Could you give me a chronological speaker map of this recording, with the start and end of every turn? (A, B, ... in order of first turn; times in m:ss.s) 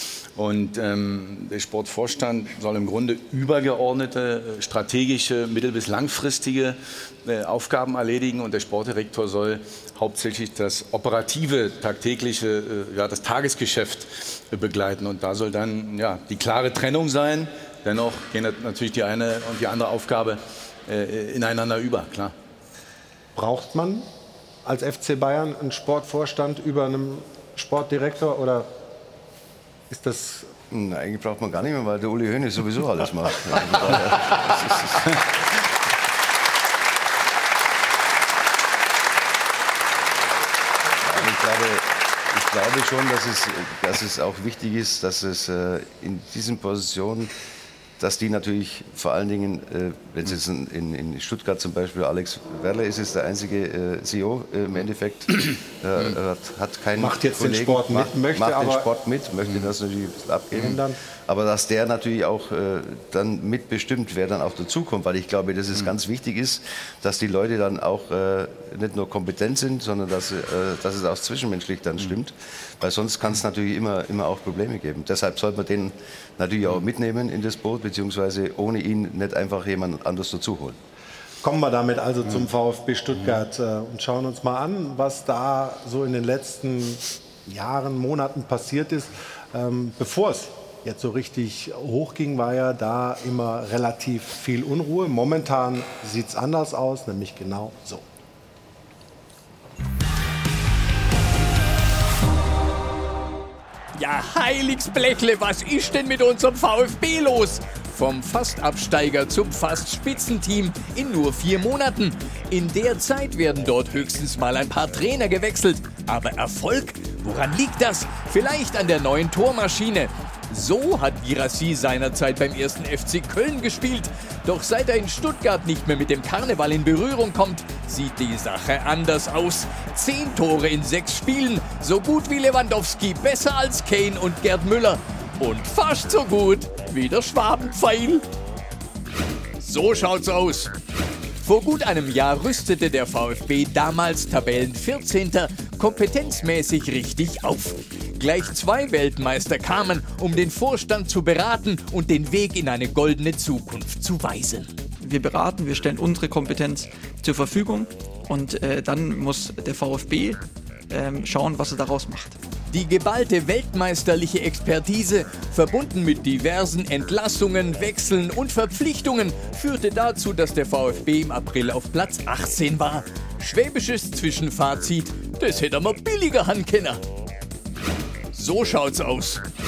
0:00.4-0:22.3 A
0:23.4-0:24.1 B
0:24.6-0:28.7 B
0:29.9-0:30.5 B
0:30.7-0:35.1 C
0:41.0-0:47.3 C
0:48.0-1:20.8 C
0:57.0-0:58.8 B
1:00.6-1:01.0 B
1:21.4-1:38.0 B
1:44.0-2:18.2 D
2:19.6-2:20.7 D
2:21.4-2:34.7 D
2:35.0-2:40.4 E
2:40.9-2:42.4 E
2:42.7-2:57.0 D
2:58.3-2:59.4 D